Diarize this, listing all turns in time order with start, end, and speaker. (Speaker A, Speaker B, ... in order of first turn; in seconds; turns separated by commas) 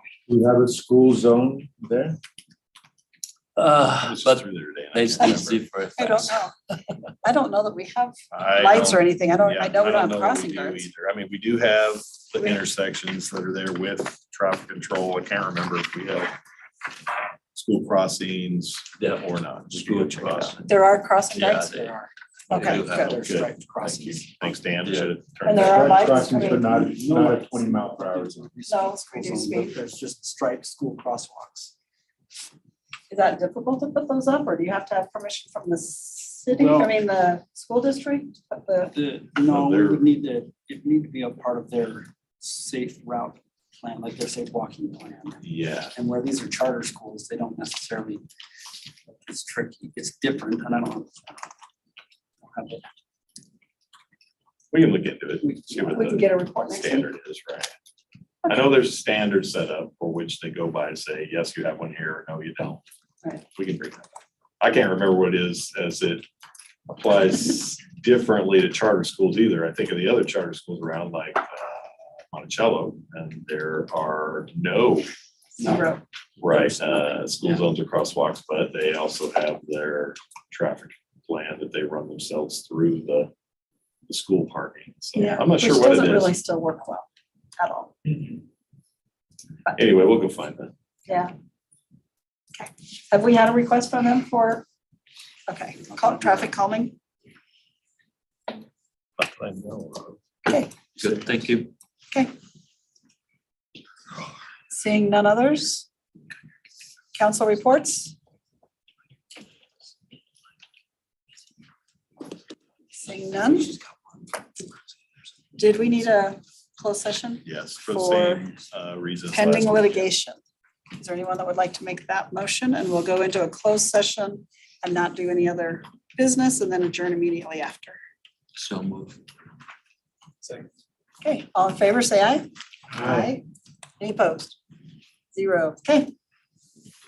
Speaker A: 0.3-2.2, Speaker B: 3.6-6.5, Speaker C: 4.0-5.6, Speaker D: 6.0-6.5, Speaker D: 7.2-10.9, Speaker C: 8.3-16.3, Speaker C: 17.5-20.6, Speaker B: 19.0-22.0, Speaker D: 20.7-21.8, Speaker E: 21.5-22.1, Speaker B: 22.5-23.2, Speaker D: 22.5-23.1, Speaker C: 22.7-26.2, Speaker E: 22.9-24.6, Speaker B: 24.8-25.1, Speaker D: 25.4-26.8, Speaker A: 25.5-28.5, Speaker E: 26.1-31.7, Speaker D: 28.7-29.8, Speaker D: 33.1-38.9, Speaker E: 36.5-37.0, Speaker E: 38.8-45.4, Speaker C: 39.4-40.0, Speaker C: 45.4-45.9, Speaker E: 45.9-48.3, Speaker E: 49.2-51.5, Speaker E: 52.4-52.9, Speaker C: 54.7-57.7, Speaker E: 55.5-56.0, Speaker D: 55.9-57.1, Speaker C: 58.5-62.8, Speaker C: 63.5-64.1, Speaker C: 64.6-66.2, Speaker C: 66.9-75.1, Speaker D: 75.6-76.0, Speaker C: 76.4-83.3, Speaker C: 84.1-86.3, Speaker D: 85.2-88.1, Speaker C: 89.8-90.7, Speaker D: 91.1-91.3, Speaker D: 92.6-94.7, Speaker D: 95.5-97.0, Speaker C: 99.2-100.2, Speaker D: 100.5-100.7, Speaker B: 101.0-101.7, Speaker D: 104.7-105.9, Speaker D: 107.2-108.1, Speaker D: 113.0-113.7, Speaker D: 115.6-118.5, Speaker C: 117.5-120.1, Speaker D: 119.3-120.4, Speaker D: 120.9-128.0, Speaker B: 128.6-129.2, Speaker D: 131.2-132.5, Speaker D: 133.0-133.4, Speaker A: 133.0-133.3, Speaker D: 134.0-134.6, Speaker D: 135.3-136.1